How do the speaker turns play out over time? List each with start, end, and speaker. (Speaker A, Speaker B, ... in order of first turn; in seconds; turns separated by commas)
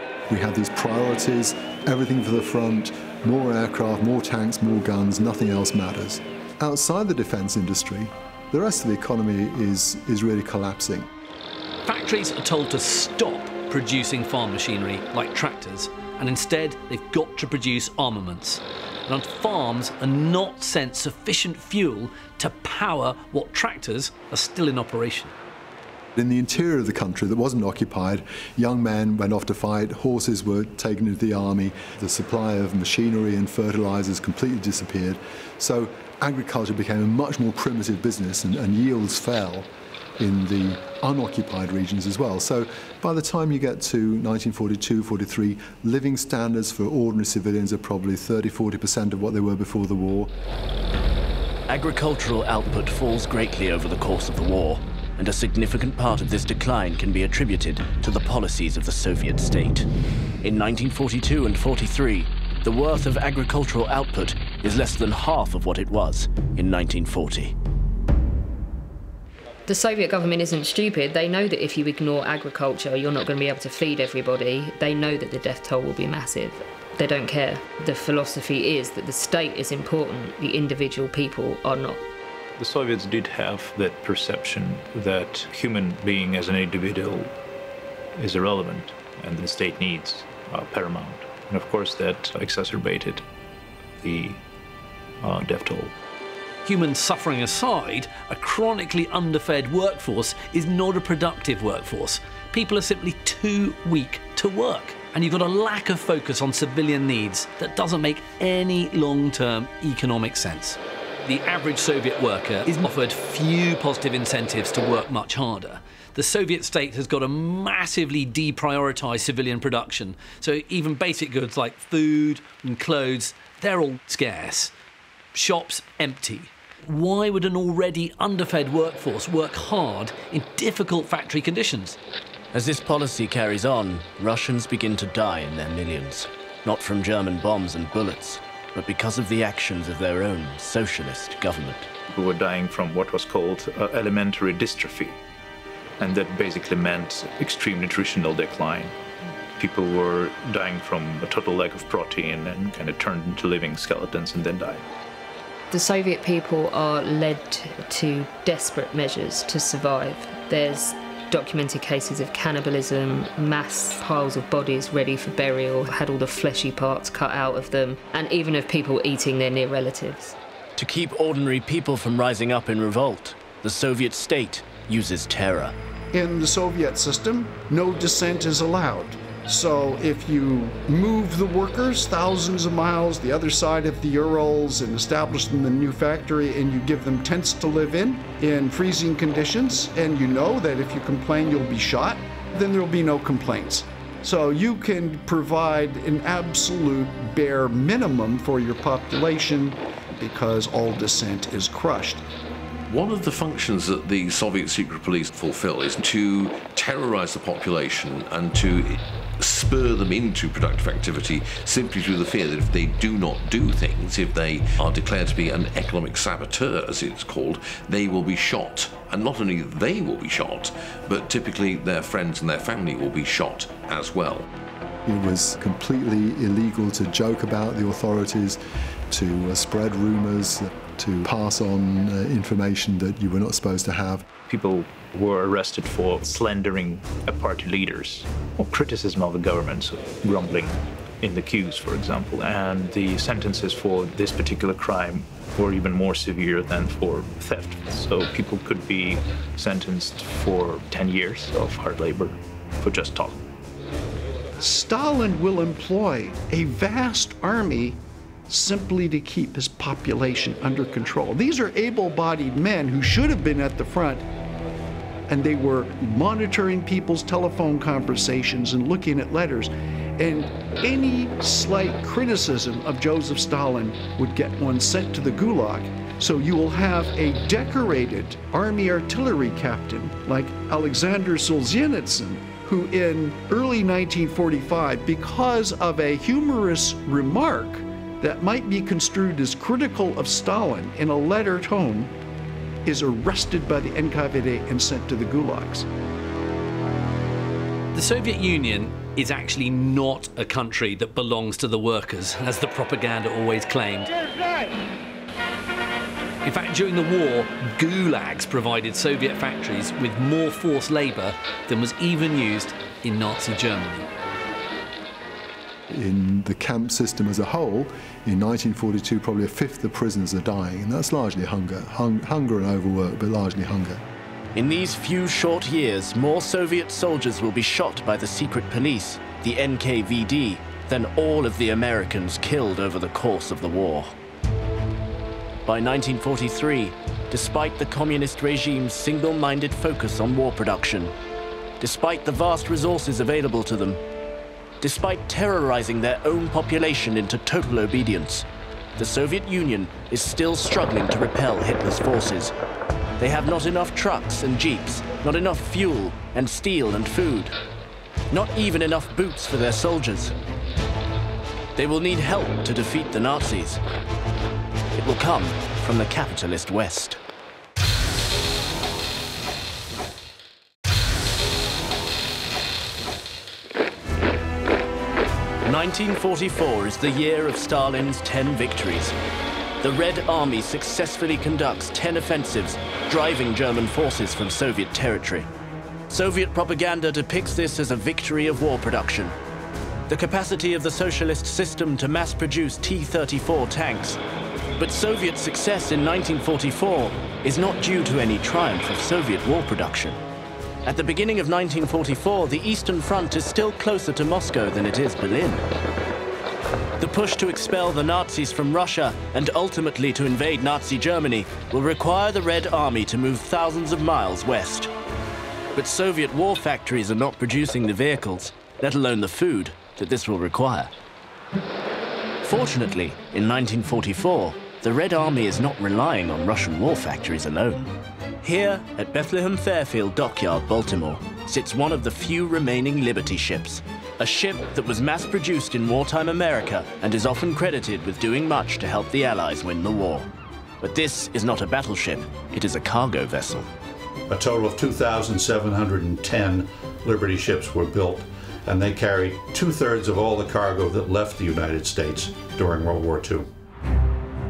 Speaker A: 0.3-11.1, Speaker B: 11.8-25.3, Speaker A: 26.1-50.3, Speaker C: 51.7-59.9, Speaker C: 60.4-67.5, Speaker D: 69.7-82.0, Speaker E: 82.6-87.3, Speaker E: 88.2-93.2, Speaker E: 94.0-94.4, Speaker E: 95.2-95.9, Speaker B: 96.6-124.7, Speaker B: 125.3-132.0, Speaker C: 132.5-141.9, Speaker E: 142.1-145.2, Speaker E: 146.0-148.9, Speaker E: 149.6-154.8, Speaker D: 155.7-170.3, Speaker C: 170.8-175.7, Speaker F: 176.1-202.2, Speaker G: 202.9-224.5, Speaker A: 225.1-228.6, Speaker A: 229.1-234.3, Speaker E: 234.4-253.4, Speaker F: 254.6-264.2, Speaker F: 265.3-292.1, Speaker F: 292.8-295.9, Speaker B: 297.9-304.1, Speaker B: 306.4-314.1, Speaker A: 315.9-324.0, Speaker C: 324.5-334.1, Speaker C: 335.6-341.1, Speaker C: 341.8-344.0, Speaker C: 344.8-348.4, Speaker C: 349.0-352.5, Speaker C: 353.2-357.6, Speaker C: 358.3-360.3, Speaker C: 361.8-363.8, Speaker C: 365.0-367.2, Speaker C: 375.6-379.1, Speaker C: 379.8-385.5, Speaker C: 386.1-389.4, Speaker C: 390.1-394.2, Speaker C: 394.8-400.2, Speaker C: 400.8-405.6, Speaker C: 407.0-414.9, Speaker C: 415.7-420.9, Speaker C: 422.4-427.9, Speaker C: 428.4-440.3, Speaker C: 440.8-443.7, Speaker H: 444.3-453.5